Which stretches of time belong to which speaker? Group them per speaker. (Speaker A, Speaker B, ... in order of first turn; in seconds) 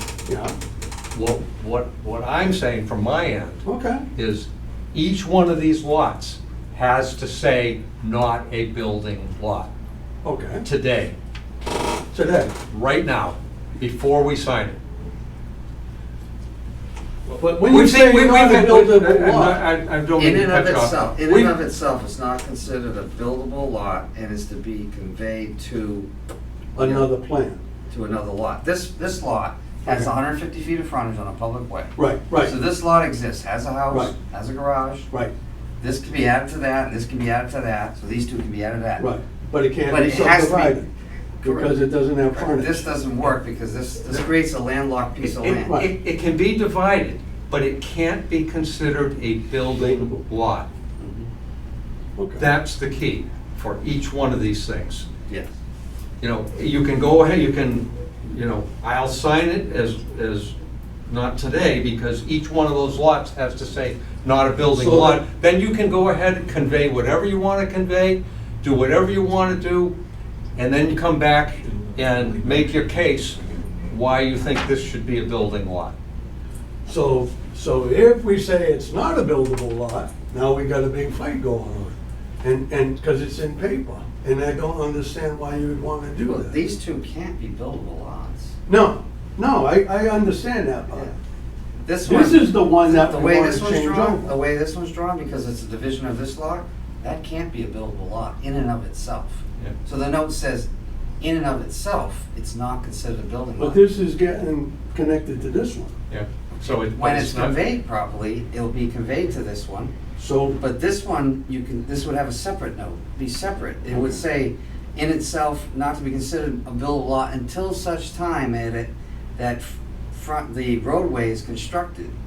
Speaker A: 0.3-0.5, 3.6-4.0, 10.2-10.6, 12.1-12.5, 17.3-19.6, 26.8-27.6, 29.9-30.1, 32.0-32.5, 39.0-40.9, 41.4-42.9, 45.5-45.9, 52.2-52.5, 64.7-65.2, 76.8-86.6, 88.7-91.1, 92.0-94.3, 103.6-105.9, 110.2-110.6, 113.9-114.2
Speaker B: 1.1-3.6, 4.1-9.7, 10.6-11.1, 12.7-14.8, 17.6-21.5, 45.2-50.7, 52.4-55.1, 56.2-60.5, 61.1-69.9, 70.5-73.4, 73.9-75.9, 106.1-107.6
Speaker C: 20.1-26.1, 26.8-27.1, 27.9-35.1, 35.8-39.1, 39.9-40.9, 41.4-41.7, 42.3-45.8, 51.0-51.3, 55.3-55.5, 86.3-88.5, 91.8-100.7, 101.2-103.8, 106.9-109.9, 110.6-122.1